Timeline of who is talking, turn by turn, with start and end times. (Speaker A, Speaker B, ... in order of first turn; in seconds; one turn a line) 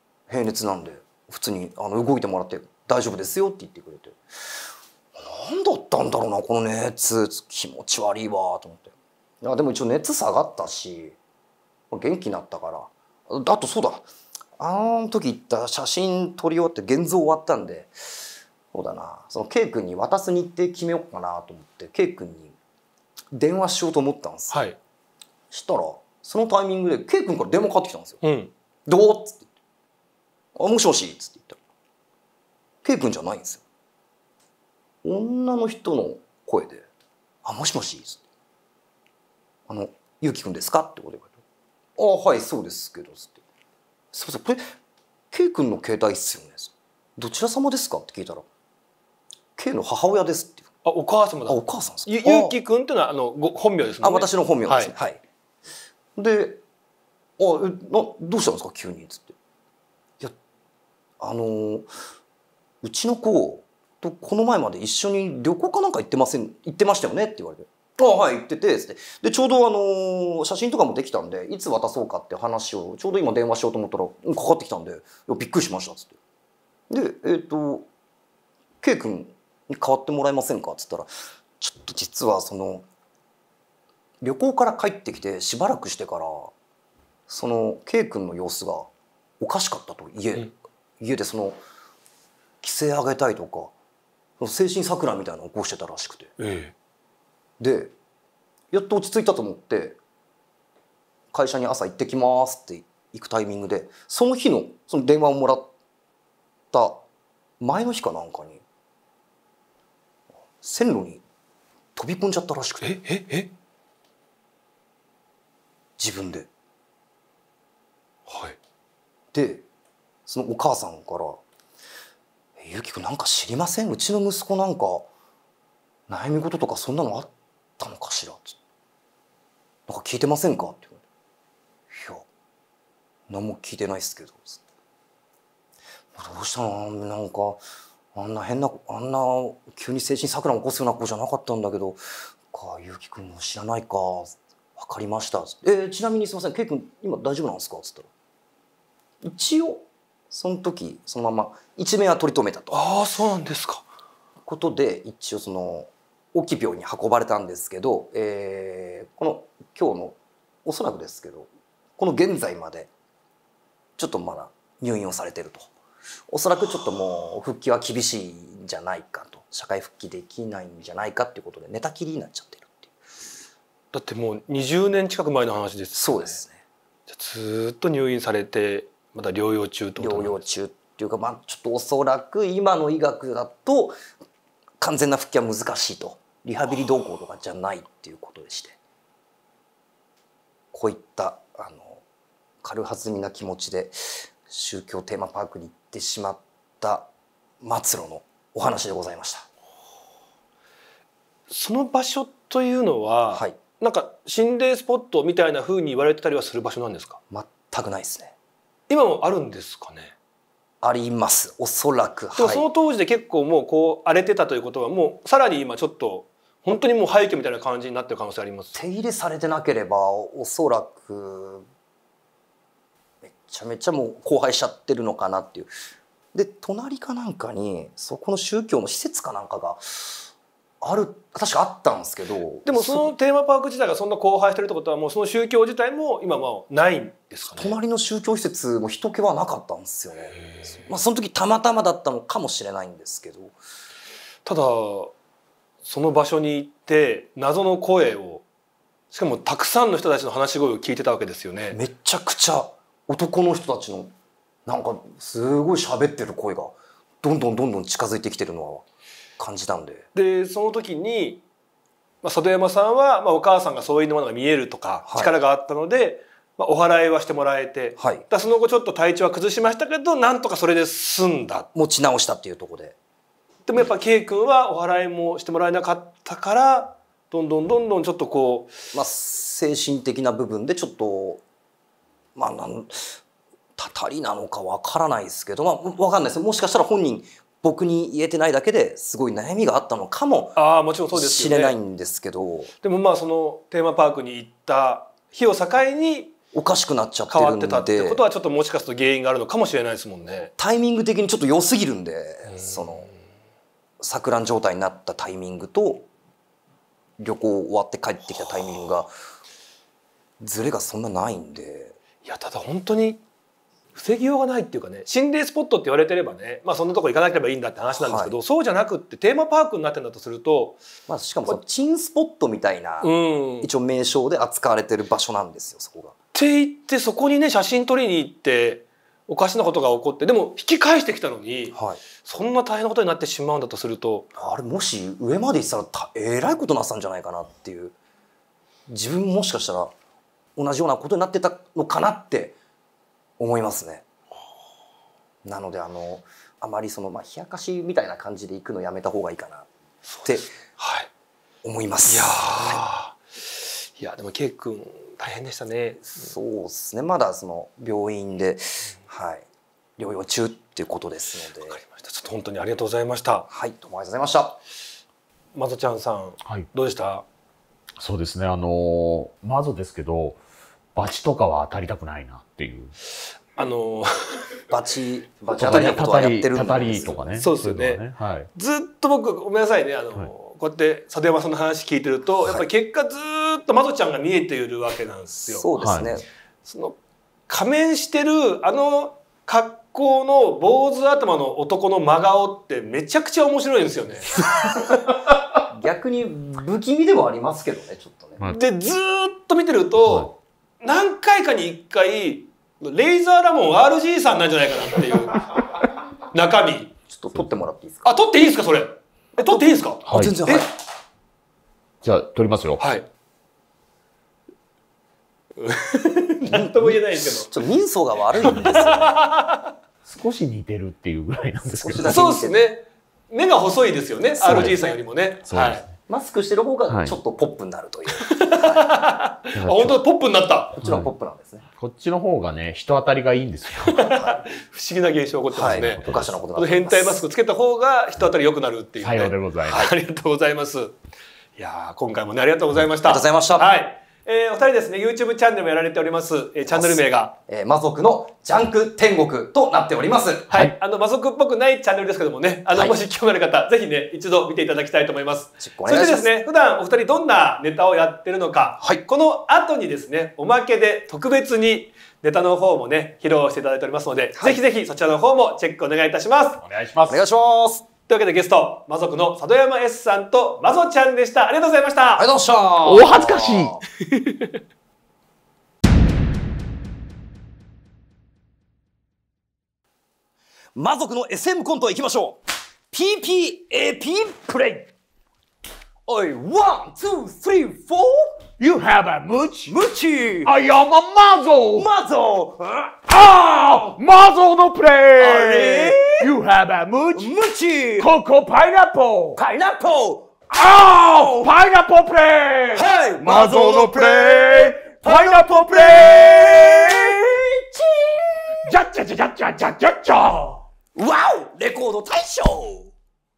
Speaker A: 0.3-11.2
Speaker A: 11.9-14.1
Speaker A: 14.6-22.6
Speaker A: 23.3-24.6
Speaker B: 24.5-24.8
Speaker A: 25.5-28.2
Speaker B: 28.2-28.5
Speaker A: 28.9-29.5
Speaker A: 30.6-31.6
Speaker A: 32.8-33.6
Speaker A: 35.0-36.9
Speaker A: 37.4-38.2
Speaker A: 39.7-41.4
Speaker A: 42.0-43.4
Speaker A: 44.1-44.7
Speaker A: 45.3-48.5
Speaker A: 49.6-50.7
Speaker B: 50.9-54.9
Speaker A: 51.5-52.6
Speaker A: 54.0-55.2
Speaker A: 56.2-56.6
Speaker A: 57.4-59.3
Speaker A: 61.2-61.9
Speaker A: 62.8-76.2
Speaker A: 76.9-77.9
Speaker A: 78.8-82.8
Speaker A: 84.2-86.5
Speaker A: 87.3-88.9
Speaker A: 89.4-91.6
Speaker A: 92.6-93.7
Speaker A: 94.4-96.3
Speaker B: 96.4-96.7
Speaker A: 97.6-97.9
Speaker A: 98.7-100.0
Speaker A: 101.3-105.7
Speaker A: 106.7-107.0
Speaker A: 107.6-108.6
Speaker A: 110.6-111.2
Speaker A: 112.0-113.0
Speaker B: 112.8-113.5
Speaker A: 116.0-116.5
Speaker B: 118.3-118.6
Speaker A: 119.3-119.7
Speaker A: 120.3-121.4
Speaker A: 122.6-125.1
Speaker A: 126.1-128.6
Speaker A: 129.9-131.0
Speaker A: 131.9-132.3
Speaker A: 133.3-134.6
Speaker A: 136.2-137.6
Speaker A: 138.2-148.1
Speaker A: 149.2-152.9
Speaker B: 152.7-153.9
Speaker A: 154.4-162.9
Speaker A: 164.0-165.7
Speaker A: 166.3-172.9
Speaker B: 173.9-176.4
Speaker A: 175.9-176.6
Speaker B: 177.1-180.4
Speaker A: 180.0-184.0
Speaker A: 184.8-188.8
Speaker A: 190.7-192.0
Speaker A: 192.6-197.1
Speaker A: 197.6-199.5
Speaker B: 201.5-207.2
Speaker A: 203.3-203.6
Speaker A: 207.3-208.3
Speaker B: 208.9-210.1
Speaker A: 210.8-212.7
Speaker B: 212.4-218.8
Speaker A: 218.7-221.7
Speaker A: 223.2-225.7
Speaker A: 226.3-230.3
Speaker A: 230.8-233.1
Speaker B: 232.7-237.8
Speaker A: 237.5-243.6
Speaker B: 240.3-240.8
Speaker B: 244.5-245.1
Speaker B: 245.8-248.4
Speaker B: 249.1-251.8
Speaker A: 251.7-254.1
Speaker A: 254.7-258.9
Speaker A: 259.4-260.1
Speaker B: 260.1-261.4
Speaker B: 262.2-271.7
Speaker A: 265.1-265.4
Speaker A: 268.0-268.2
Speaker A: 271.8-273.0
Speaker B: 273.7-278.8
Speaker A: 278.9-281.4
Speaker A: 282.4-283.2
Speaker A: 283.8-290.6
Speaker B: 290.6-291.8
Speaker A: 291.1-292.7
Speaker B: 292.8-296.3
Speaker A: 296.5-298.2
Speaker B: 297.3-300.5
Speaker A: 300.6-303.1
Speaker B: 302.5-303.1
Speaker A: 304.0-306.1
Speaker A: 307.2-309.1
Speaker A: 310.4-312.0
Speaker B: 312.2-313.2
Speaker B: 313.9-320.8
Speaker A: 318.0-318.4
Speaker A: 321.1-326.1
Speaker B: 323.0-323.7
Speaker B: 326.3-334.3
Speaker A: 331.7-332.0
Speaker A: 334.4-337.9
Speaker A: 338.9-339.9
Speaker A: 340.6-342.6
Speaker A: 343.4-344.1
Speaker A: 345.4-349.7
Speaker B: 350.1-351.1
Speaker A: 350.2-350.5
Speaker A: 351.6-352.8
Speaker B: 352.1-356.3
Speaker A: 356.2-359.4
Speaker A: 360.0-361.8
Speaker B: 361.6-363.5
Speaker A: 363.5-364.6
Speaker B: 365.6-367.2
Speaker C: 368.0-370.4
Speaker C: 370.9-373.0
Speaker B: 373.6-374.6
Speaker A: 374.7-377.3
Speaker B: 375.6-376.0
Speaker C: 375.6-378.5
Speaker B: 377.2-378.0
Speaker B: 378.5-385.7
Speaker A: 385.3-386.3
Speaker C: 385.8-386.1
Speaker B: 386.6-387.0
Speaker B: 387.5-394.3
Speaker A: 395.7-398.4
Speaker B: 398.5-405.7
Speaker C: 400.0-400.3
Speaker B: 406.3-406.9
Speaker A: 407.1-408.1
Speaker B: 408.1-410.6
Speaker A: 409.4-410.7
Speaker C: 410.1-410.3
Speaker C: 412.0-412.8
Speaker B: 412.8-413.1
Speaker B: 415.6-417.5
Speaker A: 416.5-419.1
Speaker C: 418.4-419.1
Speaker B: 418.5-419.7
Speaker C: 420.1-422.2
Speaker A: 421.7-422.7
Speaker B: 422.0-425.8
Speaker A: 424.4-425.0
Speaker C: 424.4-424.8
Speaker C: 425.5-425.9
Speaker A: 426.1-428.9
Speaker C: 426.9-427.2
Speaker B: 428.2-430.7
Speaker C: 429.6-430.0
Speaker A: 430.8-431.6
Speaker C: 430.8-431.1
Speaker C: 431.7-434.1
Speaker B: 433.9-436.0
Speaker A: 434.1-434.4
Speaker A: 435.5-437.2
Speaker C: 435.6-436.4
Speaker B: 436.5-440.9
Speaker C: 439.0-439.9
Speaker A: 439.7-439.9
Speaker B: 441.6-447.3
Speaker A: 443.1-443.7
Speaker A: 446.7-450.5
Speaker B: 450.5-466.6
Speaker A: 452.7-453.0
Speaker A: 455.6-456.3
Speaker A: 464.4-464.6
Speaker C: 466.6-467.2
Speaker A: 467.1-467.9
Speaker B: 468.1-472.2
Speaker A: 472.2-473.8
Speaker C: 472.8-473.8
Speaker B: 474.1-474.5
Speaker A: 480.8-482.4
Speaker A: 482.9-484.9
Speaker A: 486.1-488.4
Speaker C: 488.6-489.8
Speaker A: 489.7-490.5
Speaker C: 490.4-491.9
Speaker A: 491.7-494.0
Speaker C: 493.1-497.4
Speaker A: 495.2-496.3
Speaker A: 497.1-498.1
Speaker C: 498.0-499.4
Speaker A: 499.4-501.5
Speaker C: 500.5-507.1
Speaker A: 502.7-508.7
Speaker C: 508.6-510.6
Speaker A: 510.9-512.9